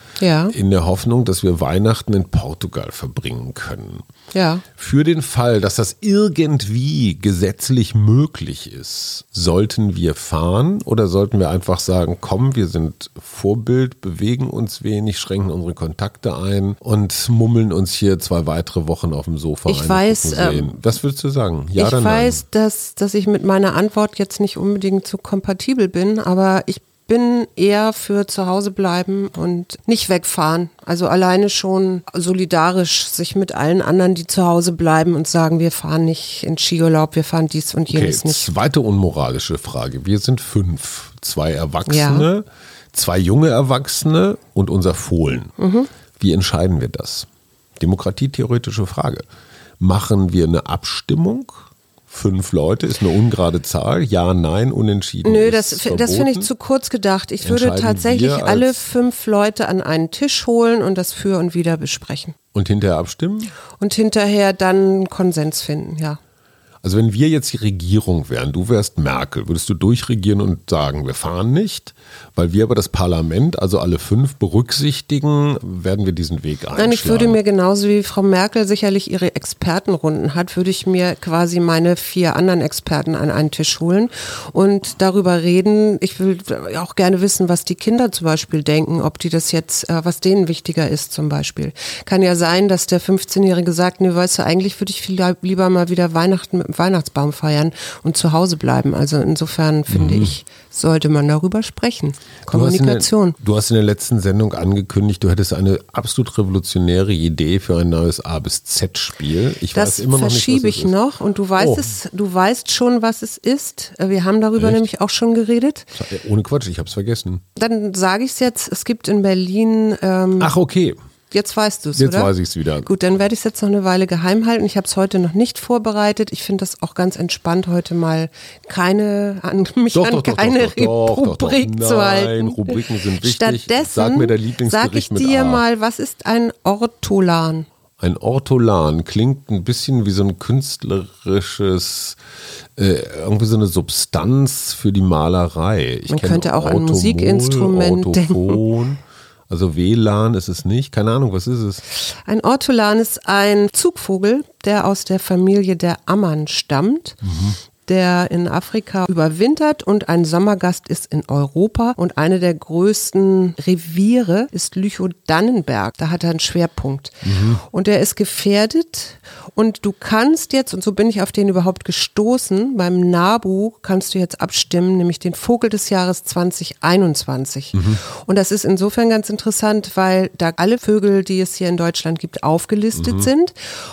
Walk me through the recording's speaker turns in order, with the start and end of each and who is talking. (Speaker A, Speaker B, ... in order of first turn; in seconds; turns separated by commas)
Speaker A: 0.2-0.5, Speaker B: 0.5-4.0, Speaker A: 4.3-4.6, Speaker B: 4.8-22.4, Speaker A: 19.6-20.7, Speaker A: 21.7-38.5, Speaker B: 37.9-45.5, Speaker A: 41.9-42.2, Speaker A: 45.6-45.9, Speaker B: 46.2-47.3, Speaker B: 47.8-49.2, Speaker B: 49.8-56.5, Speaker A: 55.2-62.3, Speaker B: 57.4-58.8, Speaker B: 62.5-63.5, Speaker A: 63.8-66.2, Speaker B: 66.8-77.4, Speaker A: 76.8-103.4, Speaker B: 99.9-100.3, Speaker B: 102.5-110.9, Speaker A: 109.7-115.9, Speaker B: 111.6-111.9, Speaker B: 114.6-114.8, Speaker B: 115.9-117.4, Speaker A: 117.5-120.5, Speaker B: 120.4-121.0, Speaker A: 121.3-122.3, Speaker B: 122.0-122.9, Speaker A: 122.8-137.7, Speaker B: 129.9-135.6, Speaker B: 138.0-142.2, Speaker B: 142.8-151.8, Speaker A: 146.1-148.6, Speaker A: 151.9-157.2, Speaker B: 157.2-157.6, Speaker A: 157.8-183.5, Speaker B: 167.2-167.6, Speaker B: 177.7-178.0, Speaker B: 182.9-183.3